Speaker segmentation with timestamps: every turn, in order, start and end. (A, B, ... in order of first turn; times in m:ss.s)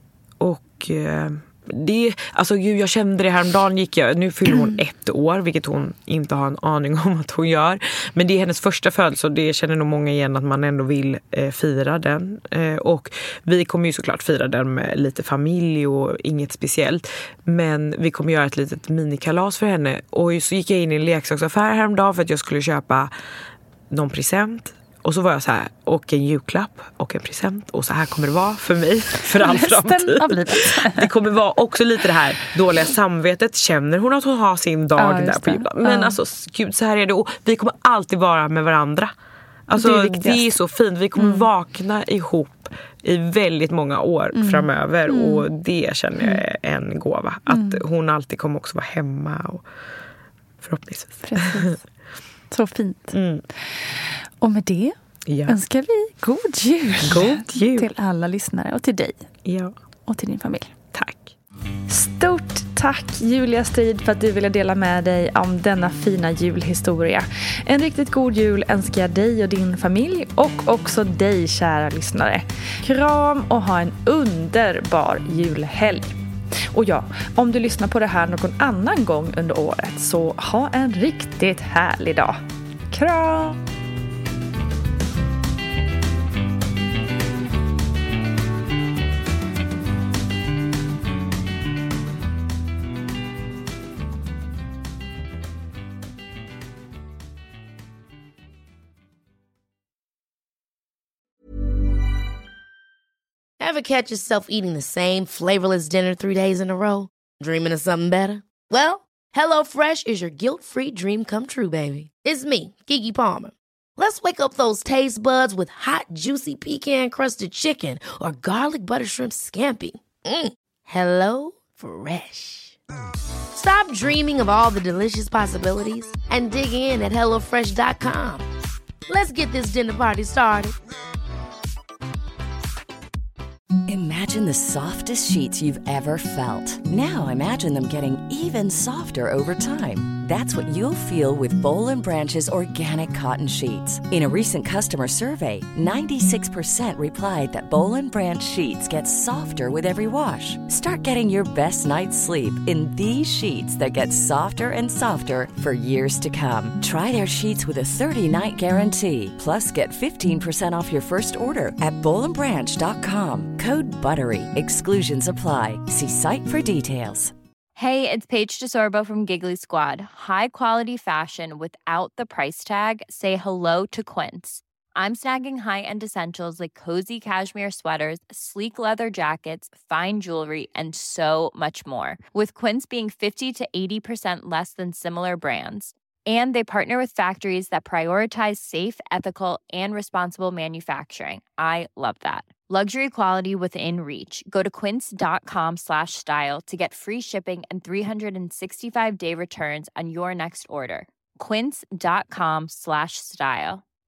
0:00.4-0:23.1 A
0:23.9-0:39.1 A
0:29.4-0:31.1 B
0:35.0-0:36.2 B
0:39.7-0:49.6 A
0:39.8-0:40.5 B
0:41.2-0:41.5 B
0:44.3-0:45.4 B
0:47.5-0:47.8 B
0:50.6-0:51.8 A
0:51.2-0:51.8 B
0:52.5-0:54.9 B
0:53.1-0:53.4 A
0:55.2-0:55.6 A
0:55.5-0:59.3 B
0:57.1-0:57.9 A
0:59.4-0:59.7 A
1:00.1-1:00.7 B
1:00.9-1:01.3 A
1:01.9-1:16.2 B
1:16.7-1:22.4 B
1:22.9-1:23.6 B
1:43.6-2:02.8 C
2:03.5-2:08.4 C
2:09.1-2:10.8 C
2:13.9-2:47.3 D
2:47.8-3:23.8 E